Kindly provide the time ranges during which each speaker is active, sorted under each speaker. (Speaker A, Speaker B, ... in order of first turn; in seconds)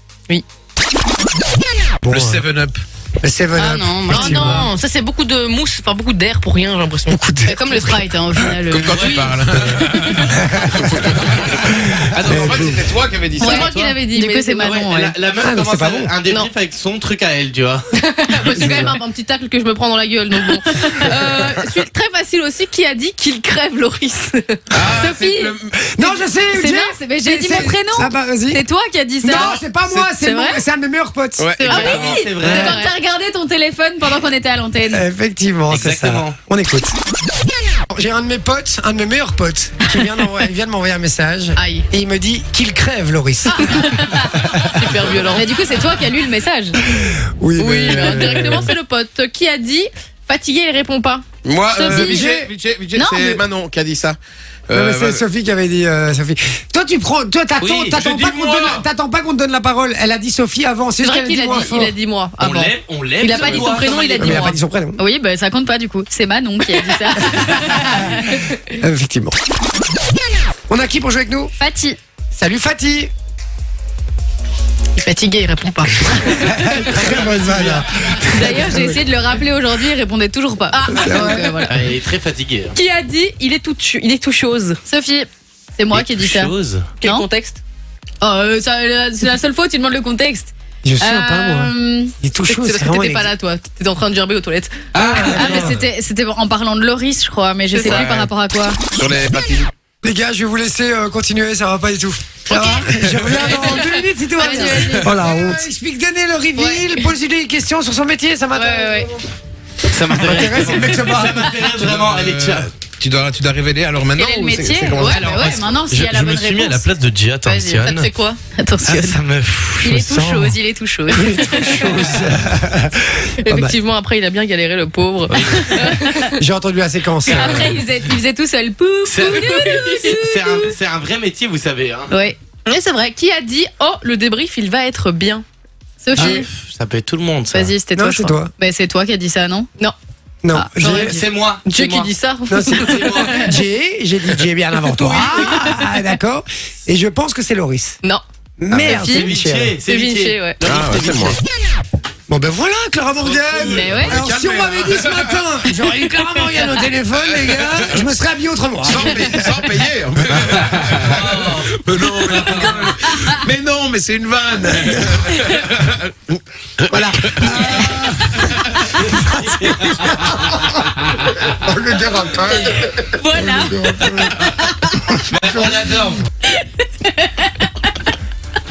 Speaker A: 2.0-2.4, 3.2-4.7, 7.1-7.6, 9.6-11.1, 11.7-12.8, 15.4-16.1, 18.5-18.9, 25.8-28.6, 29.2-31.5, 32.4-32.8, 34.9-36.9, 37.9-45.0, 46.9-48.7, 51.9-52.5, 54.7-61.9, 64.2-65.0, 68.6-69.3, 70.7-71.5, 72.3-73.1, 76.2-79.0, 80.9-81.5, 90.8-93.3, 95.2-95.7, 100.0-109.1, 110.1-111.6, 119.9-120.6, 121.1-123.7, 126.3-127.8, 137.9-138.5, 140.4-141.2, 142.5-148.0, 148.6-149.8, 152.3-159.4, 166.9-170.8, 171.4-176.2
Speaker B: 2.0-2.8, 8.5-13.7, 21.4-21.6, 24.7-26.1, 29.2-30.1, 31.4-32.2, 51.4-54.2, 54.7-55.2, 57.9-58.8, 97.8-98.3, 98.9-99.7, 103.1-103.5, 104.7-105.5, 111.7-115.8, 150.6-151.4, 153.5-155.5, 157.3-158.1, 158.8-169.0, 172.2-172.9
Speaker C: 3.5-4.7, 7.4-9.3, 13.4-15.1, 24.9-25.5, 26.5-29.6, 31.7-35.0, 43.5-44.4, 45.3-46.8, 51.7-52.4, 52.9-53.4, 63.2-64.4, 65.0-68.4, 71.6-72.0, 78.3-81.9, 84.8-87.2, 88.2-92.1, 95.0-98.8, 102.5-105.3, 106.5-107.0, 108.5-109.1, 114.1-116.9, 118.5-119.2, 119.8-122.0, 125.7-126.3, 127.3-130.7, 132.1-132.4, 136.0-136.5, 137.5-139.7, 153.7-154.2, 162.3-163.3, 172.6-175.1, 176.5-177.7
Speaker D: 4.1-8.1, 9.0-9.3, 13.4-14.8, 16.2-16.5, 17.9-24.6, 29.9-30.6, 31.5-32.9, 41.6-41.8, 44.8-45.5, 47.5-51.3, 61.0-64.5, 75.0-76.5, 80.7-81.5, 82.7-84.8, 87.0-87.6, 92.5-94.9, 97.7-98.1, 117.5-118.4, 123.4-126.2, 129.3-130.2, 132.6-135.4, 140.6-143.4, 144.9-145.8, 148.9-149.3, 149.8-150.6
Speaker E: 8.9-9.3, 12.1-12.9, 13.5-14.0, 14.7-17.9, 31.7-32.6, 35.7-36.4, 57.6-58.0, 62.4-64.5, 77.2-77.8, 81.7-82.8, 85.9-86.9, 94.9-95.8, 109.9-112.7, 115.0-118.1, 118.8-120.1, 125.3-125.9, 127.3-127.8, 129.1-132.1, 136.1-137.7, 140.9-142.1, 142.7-143.5, 145.1-145.5, 148.7-151.4, 153.2-153.9, 160.6-161.8, 162.4-162.7, 169.0-171.3, 175.3-176.2